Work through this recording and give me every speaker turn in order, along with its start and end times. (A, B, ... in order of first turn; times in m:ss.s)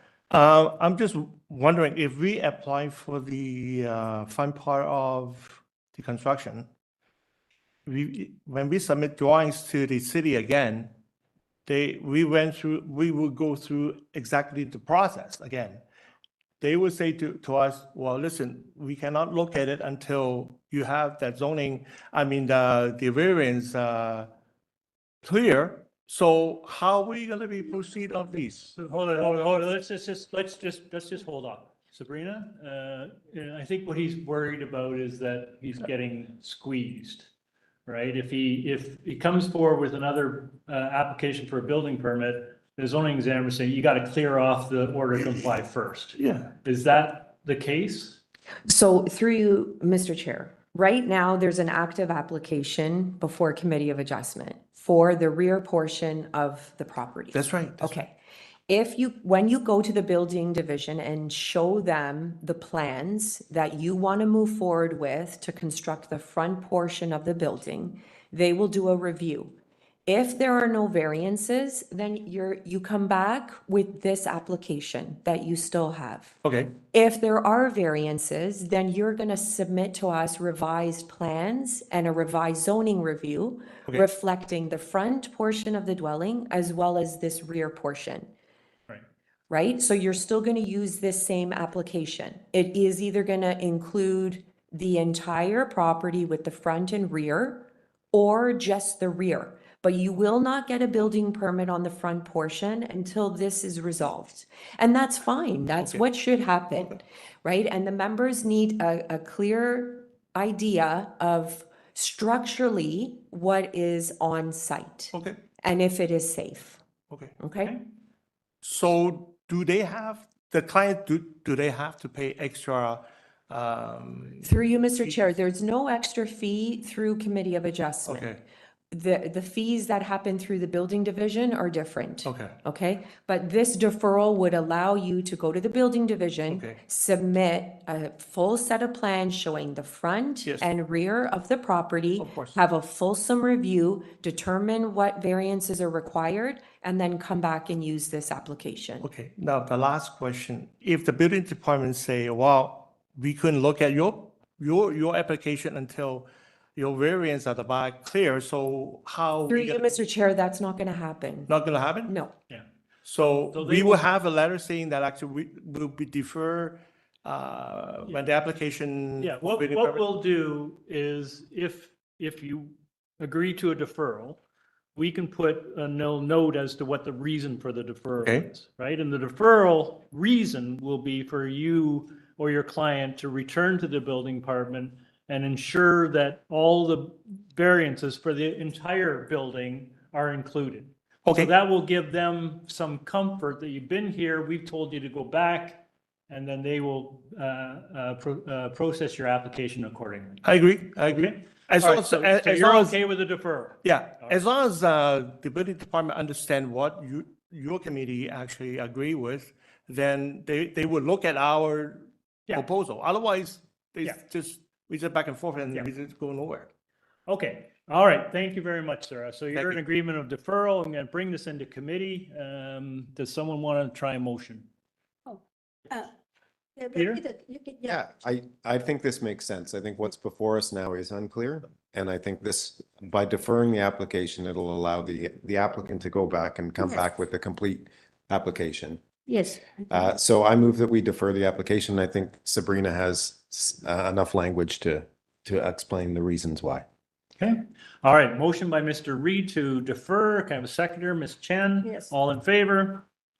0:00.3-0:06.7 A
0:07.9-0:10.9 A
0:11.7-0:15.8 A
0:16.6-0:24.3 A
0:25.2-0:28.7 A
0:28.8-0:37.3 B
0:37.9-0:48.2 B
0:46.2-0:46.5 A
0:48.7-0:58.2 C
0:57.3-0:58.0 A
0:58.7-1:09.6 C
1:10.1-1:28.3 C
1:16.4-1:16.8 A
1:29.5-1:56.8 C
1:55.1-1:55.4 A
1:57.1-1:57.4 A
1:57.4-1:57.8 C
1:58.6-2:04.5 A
2:04.4-2:08.3 C
2:08.1-2:08.4 A
2:08.9-2:29.1 C
2:12.2-2:12.6 A
2:16.5-2:16.8 A
2:22.2-2:22.6 A
2:29.0-2:40.0 A
2:39.5-2:41.5 C
2:41.5-2:42.1 A
2:42.1-2:42.3 C
2:43.0-2:50.0 A
2:43.5-2:44.0 B
2:49.2-2:54.4 B
2:55.0-3:20.4 B
3:11.3-3:11.5 A
3:20.4-3:23.0 A
3:21.0-3:24.4 B
3:23.8-3:36.7 A
3:37.3-3:44.7 B
3:39.5-3:39.8 A
3:45.3-3:46.1 D
3:46.8-3:48.0 D
3:46.9-3:47.2 B
3:47.9-3:59.0 E
3:59.3-3:59.6 D
3:59.9-4:06.9 E
4:07.4-4:13.0 B
4:11.8-4:12.1 D